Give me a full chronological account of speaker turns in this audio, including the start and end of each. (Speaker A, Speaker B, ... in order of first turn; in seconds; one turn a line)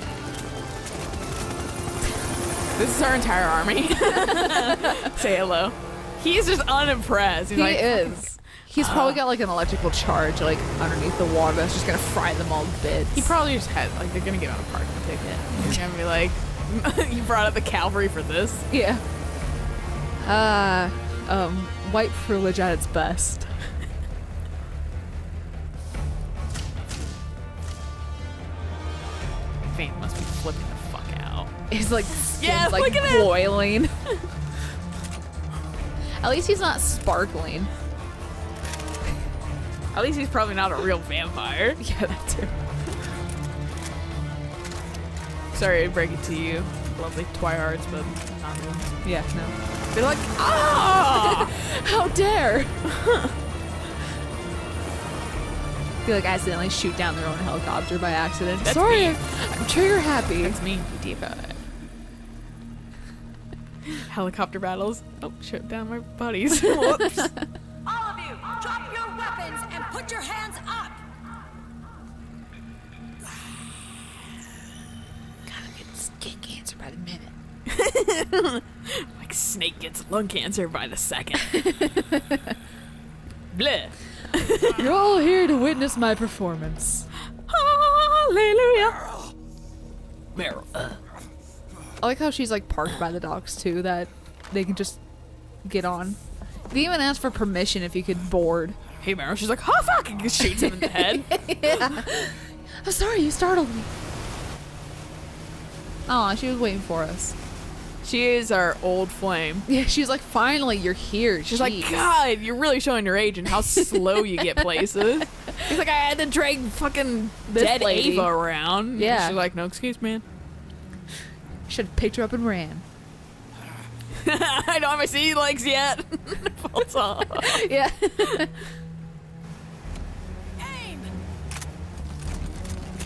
Speaker A: 2.8-9.2
Speaker B: 4.6-4.9
Speaker B: 7.5-13.3
Speaker A: 13.1-18.7
Speaker B: 15.6-15.8
Speaker B: 18.7-19.0
Speaker B: 20.2-23.6
Speaker A: 29.7-31.5
Speaker B: 31.7-34.0
Speaker A: 32.4-33.4
Speaker B: 36.2-37.7
Speaker A: 39.9-41.8
Speaker B: 41.8-42.5
Speaker A: 45.5-49.0
Speaker B: 49.0-49.5
Speaker A: 49.9-51.5
Speaker B: 51.1-52.8
Speaker A: 52.9-53.3
Speaker B: 56.0-60.6
Speaker A: 58.6-59.2
Speaker A: 60.4-61.6
Speaker A: 64.0-67.3
Speaker B: 66.5-67.5
Speaker C: 67.8-71.0
Speaker C: 73.2-73.7
Speaker B: 75.5-77.3
Speaker A: 77.7-81.7
Speaker B: 81.5-82.4
Speaker A: 83.5-84.9
Speaker B: 84.7-87.1
Speaker A: 87.5-89.0
Speaker A: 90.3-91.0
Speaker B: 92.0-95.0
Speaker B: 95.6-96.2
Speaker B: 96.7-98.8
Speaker A: 99.0-102.0
Speaker B: 100.4-103.9
Speaker B: 106.1-107.3
Speaker A: 108.0-109.7
Speaker B: 109.7-112.1
Speaker A: 111.5-120.2
Speaker B: 113.7-114.6
Speaker B: 117.5-118.3
Speaker B: 118.9-119.3
Speaker B: 121.7-122.8
Speaker A: 124.2-127.7
Speaker B: 127.4-128.6
Speaker C: 130.6-131.2